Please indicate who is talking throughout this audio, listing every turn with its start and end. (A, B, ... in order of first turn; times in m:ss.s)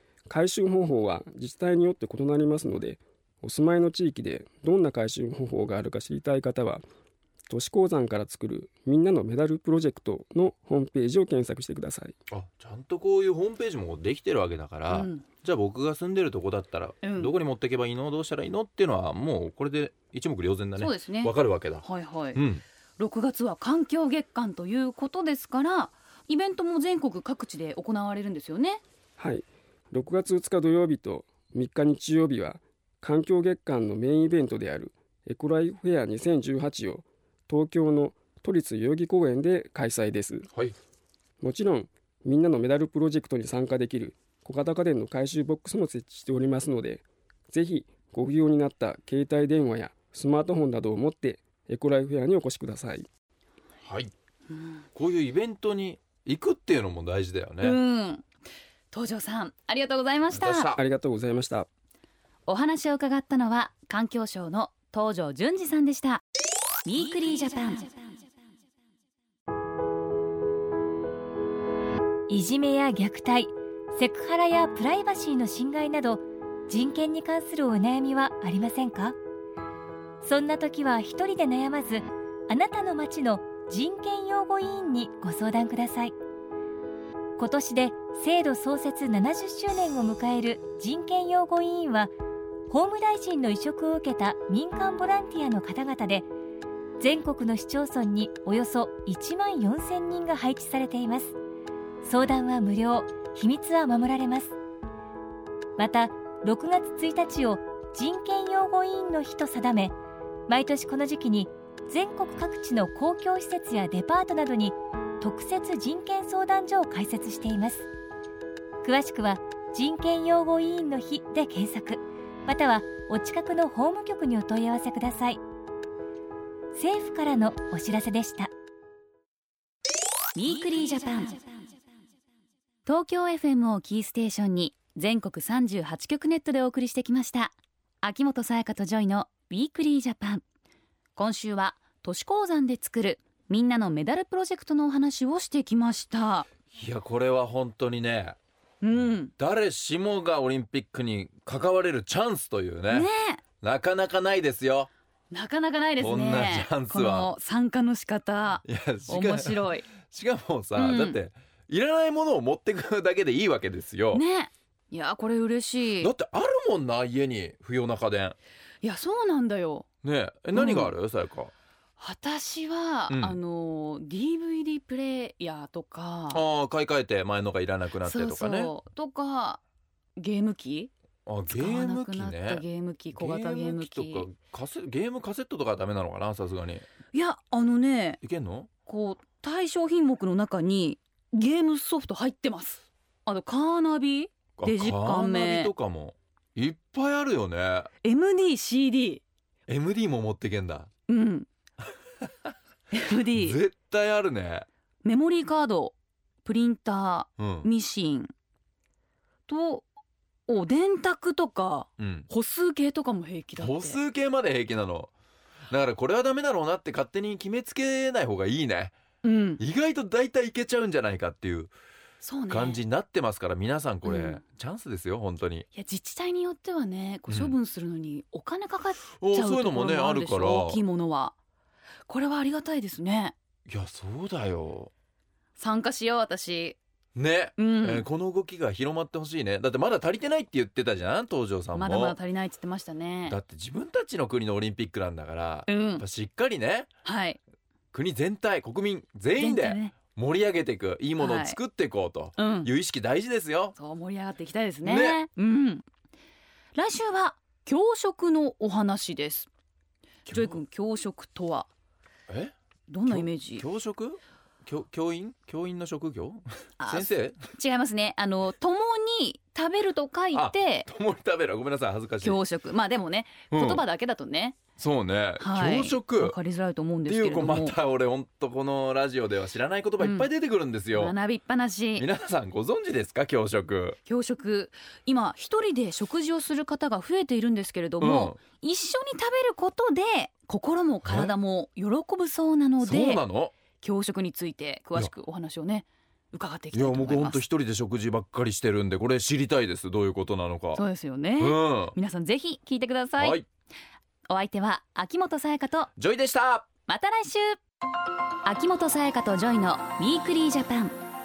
0:00.3-0:06.8 A
0:07.5-0:12.1 A
0:12.3-0:21.8 B
0:14.9-0:15.3 C
0:17.0-0:17.3 C
0:20.8-0:22.4 C
0:22.3-0:22.6 B
0:23.0-0:28.8 C
0:29.2-0:40.5 A
0:41.4-0:53.1 A
0:53.8-0:54.1 B
0:55.0-0:57.8 B
0:57.6-0:58.2 C
0:58.9-1:00.7 C
1:00.3-1:00.8 B
1:00.7-1:01.7 A
1:02.4-1:06.2 C
1:06.8-1:07.9 C
1:12.3-1:19.2 D
1:20.2-1:26.1 D
1:27.4-1:32.1 D
1:32.7-1:36.3 D
1:37.0-1:41.4 D
1:42.0-1:44.5 D
1:45.8-1:49.9 D
1:50.5-1:57.9 D
1:58.8-2:05.4 D
2:06.7-2:08.5 D
2:10.3-2:11.4 C
2:12.8-2:20.4 C
2:21.2-2:26.5 C
2:26.7-2:28.4 B
2:28.8-2:29.3 C
2:29.4-2:33.1 B
2:32.9-2:33.4 C
2:33.6-2:34.9 B
2:35.3-2:39.9 C
2:36.0-2:37.3 B
2:38.6-2:44.2 B
2:40.7-2:41.2 C
2:44.1-2:46.1 C
2:46.0-2:48.4 B
2:48.8-2:49.8 C
2:50.0-2:51.5 B
2:50.5-2:50.9 C
2:52.0-2:56.4 C
2:53.1-2:53.4 B
2:56.3-2:58.7 B
2:58.0-2:59.6 C
3:00.2-3:00.9 C
3:01.2-3:06.8 B
3:01.5-3:04.3 C
3:07.1-3:08.2 C
3:08.2-3:08.7 B
3:08.9-3:15.7 C
3:14.6-3:17.9 B
3:18.0-3:19.2 C
3:19.7-3:20.9 B
3:21.1-3:21.5 C
3:22.9-3:23.6 C
3:23.3-3:24.7 B
3:25.0-3:28.3 C
3:27.4-3:27.7 B
3:29.5-3:29.8 C
3:30.5-3:34.0 C
3:32.0-3:32.3 B
3:33.6-3:35.1 B
3:35.7-3:38.9 B
3:39.2-3:39.6 C
3:39.6-3:41.7 B
3:42.2-3:42.8 C
3:42.5-3:45.6 B
3:44.0-3:44.4 C
3:45.7-3:51.3 C
3:47.3-3:47.5 B
3:49.2-3:50.8 B
3:52.1-3:53.3 C
3:53.7-3:54.9 B
3:55.6-3:56.8 C
3:57.1-4:02.2 B
3:57.6-3:58.0 C
4:01.7-4:03.4 C
4:03.3-4:06.9 B
4:05.7-4:06.0 C
4:07.0-4:07.4 C
4:07.9-4:13.7 B
4:09.3-4:09.9 C
4:11.2-4:11.6 C
4:12.4-4:12.7 C
4:13.8-4:15.8 C
4:14.8-4:15.2 B
4:16.7-4:19.5 C
4:20.3-4:20.6 B
4:20.3-4:21.7 C
4:22.9-4:23.6 C
4:23.1-4:27.4 B
4:26.8-4:30.9 C
4:30.3-4:32.4 B
4:32.2-4:34.6 C
4:33.5-4:33.8 B
4:34.8-4:36.4 B
4:35.4-4:37.8 C
4:37.0-4:41.1 B
4:40.0-4:40.3 C
4:40.9-4:42.0 C
4:42.0-4:44.0 B
4:44.1-4:53.2 C
4:48.0-4:48.4 B
4:51.0-4:51.3 B
4:52.8-4:53.5 B
4:53.8-4:57.4 C
4:56.7-5:00.8 B
5:00.7-5:03.4 C
5:01.4-5:01.9 B
5:03.2-5:03.4 B
5:04.3-5:05.9 C
5:06.0-5:06.7 B
5:06.9-5:07.6 C
5:08.4-5:10.9 C